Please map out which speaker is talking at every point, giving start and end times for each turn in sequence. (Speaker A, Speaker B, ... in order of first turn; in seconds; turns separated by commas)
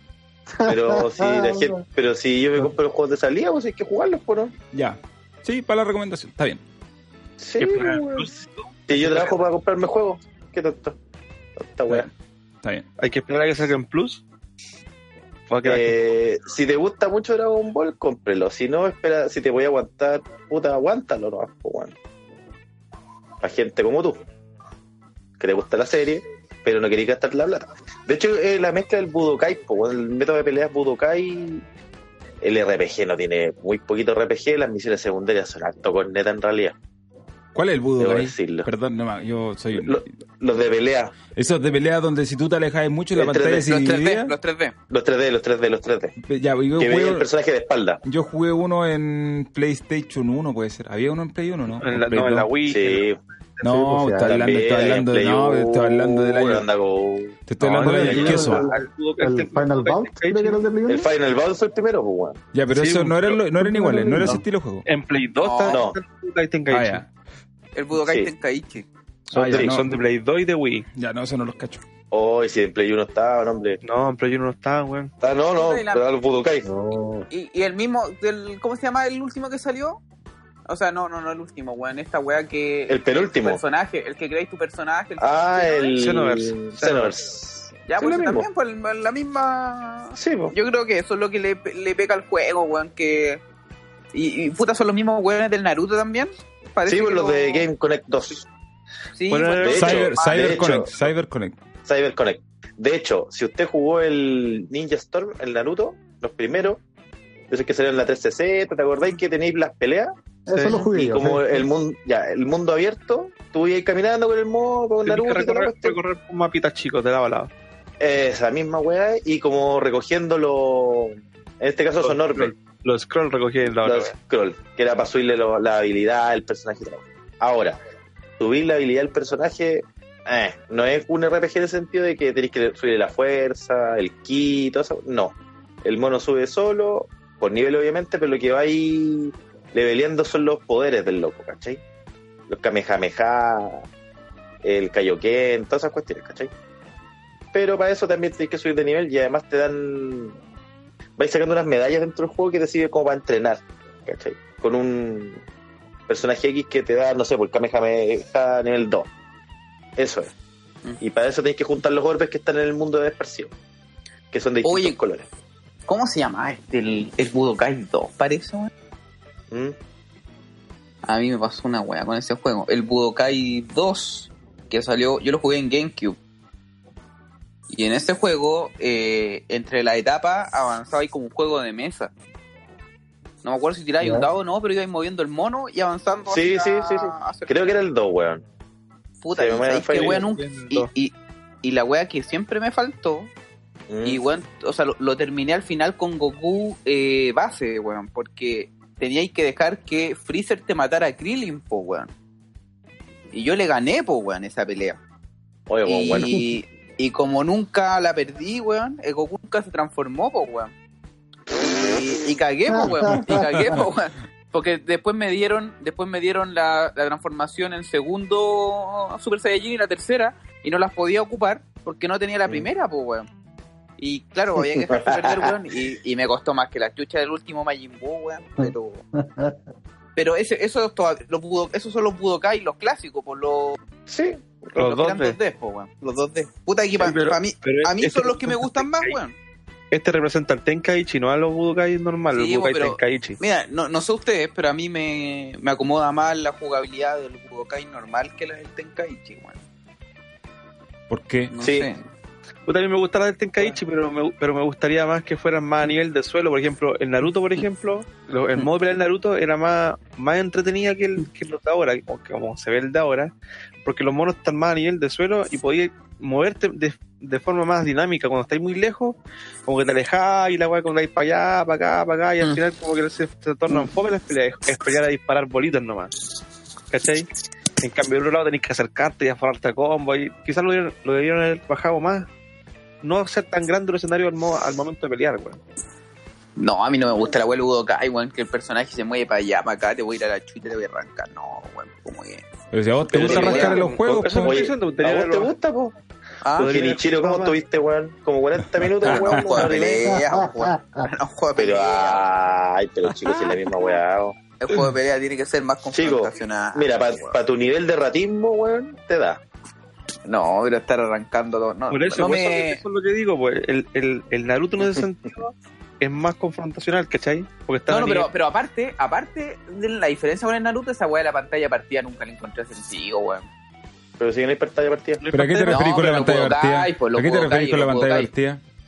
Speaker A: 0.6-1.8, Speaker B: 0.6-4.5, Speaker C: 4.7-6.6, Speaker B: 7.4-8.3, Speaker D: 7.6-9.3, Speaker B: 8.9-10.9, Speaker B: 11.6-12.1, Speaker D: 13.0-14.2, Speaker D: 15.5-15.9, Speaker B: 15.6-21.9, Speaker B: 23.4-24.2, Speaker B: 25.4-31.6, Speaker B: 32.4-36.7, Speaker C: 37.5-40.0, Speaker B: 38.0-38.7, Speaker B: 39.7-41.1, Speaker C: 41.3-44.3, Speaker B: 43.1-43.7, Speaker E: 43.6-44.7, Speaker B: 44.9-46.1, Speaker C: 46.2-47.3, Speaker B: 46.8-48.0, Speaker C: 48.0-52.5, Speaker D: 51.8-53.6, Speaker B: 52.6-53.2, Speaker C: 53.6-56.6, Speaker A: 53.6-54.4, Speaker B: 54.2-58.4, Speaker C: 57.5-58.7, Speaker D: 57.6-60.6, Speaker A: 57.8-61.1, Speaker B: 60.9-62.4, Speaker C: 62.5-64.8, Speaker D: 62.7-63.4, Speaker A: 63.6-64.4, Speaker D: 64.8-67.0, Speaker E: 65.4-65.8, Speaker B: 65.7-66.0, Speaker C: 66.7-67.1, Speaker E: 67.7-68.8, Speaker B: 67.9-68.3, Speaker D: 69.3-70.9, Speaker C: 69.3-69.9, Speaker B: 69.5-69.8, Speaker C: 70.9-71.8, Speaker B: 72.1-73.8, Speaker D: 73.8-75.1, Speaker B: 75.2-76.7, Speaker E: 75.5-76.0, Speaker A: 76.6-77.3, Speaker E: 77.3-80.0, Speaker E: 80.7-86.0, Speaker B: 82.9-83.6, Speaker B: 85.2-88.5, Speaker D: 86.0-87.1, Speaker E: 87.9-93.4, Speaker B: 90.2-90.5, Speaker E: 94.1-97.7, Speaker B: 96.8-98.4, Speaker E: 99.1-100.6, Speaker D: 99.3-100.1, Speaker B: 99.6-101.1, Speaker C: 99.7-101.6, Speaker B: 101.8-106.8, Speaker B: 107.5-116.0, Speaker A: 110.5-111.7, Speaker D: 115.0-117.5, Speaker B: 118.0-122.5, Speaker D: 122.0-124.2, Speaker B: 123.8-127.8, Speaker B: 128.4-141.8, Speaker B: 142.5-143.8, Speaker B: 144.6-146.5, Speaker B: 147.5-150.3, Speaker B: 151.2-155.4, Speaker B: 156.1-159.1, Speaker B: 160.0-160.3, Speaker B: 161.0-163.5, Speaker B: 164.3-165.2, Speaker E: 164.6-165.0, Speaker E: 165.9-168.7, Speaker E: 171.0-176.2, Speaker E: 177.7-182.1, Speaker E: 183.4-187.7, Speaker A: 184.0-184.3, Speaker B: 186.3-188.4, Speaker E: 189.2-193.3, Speaker B: 189.3-190.2, Speaker D: 189.9-190.9, Speaker B: 193.9-194.2, Speaker E: 194.0-202.1, Speaker E: 203.3-205.0, Speaker B: 205.7-206.4, Speaker E: 205.8-210.7, Speaker E: 211.5-223.3, Speaker A: 212.7-213.6, Speaker E: 224.0-229.0, Speaker B: 224.8-225.5, Speaker A: 228.6-229.6, Speaker E: 230.2-233.8, Speaker B: 234.1-234.8, Speaker D: 234.8-235.4, Speaker E: 234.8-239.3, Speaker D: 237.0-239.2, Speaker D: 239.9-243.4, Speaker E: 242.3-249.6, Speaker C: 251.1-251.5, Speaker E: 251.5-252.0, Speaker B: 251.6-251.9, Speaker D: 252.7-263.3, Speaker D: 263.8-276.1, Speaker D: 276.9-277.3, Speaker D: 277.8-282.3, Speaker D: 283.0-285.6, Speaker E: 286.6-292.5, Speaker C: 292.7-294.6, Speaker B: 293.1-295.9, Speaker D: 293.2-295.5, Speaker E: 293.3-293.8, Speaker E: 296.4-296.7, Speaker D: 296.6-297.5, Speaker B: 296.6-300.2, Speaker E: 299.0-302.3, Speaker A: 300.0-301.1, Speaker B: 301.6-304.3, Speaker E: 304.6-307.4, Speaker B: 305.9-309.4, Speaker E: 310.2-312.8, Speaker D: 311.9-318.3, Speaker E: 317.9-323.4, Speaker B: 324.2-325.2, Speaker D: 325.2-326.0, Speaker C: 325.3-328.6, Speaker E: 325.7-328.3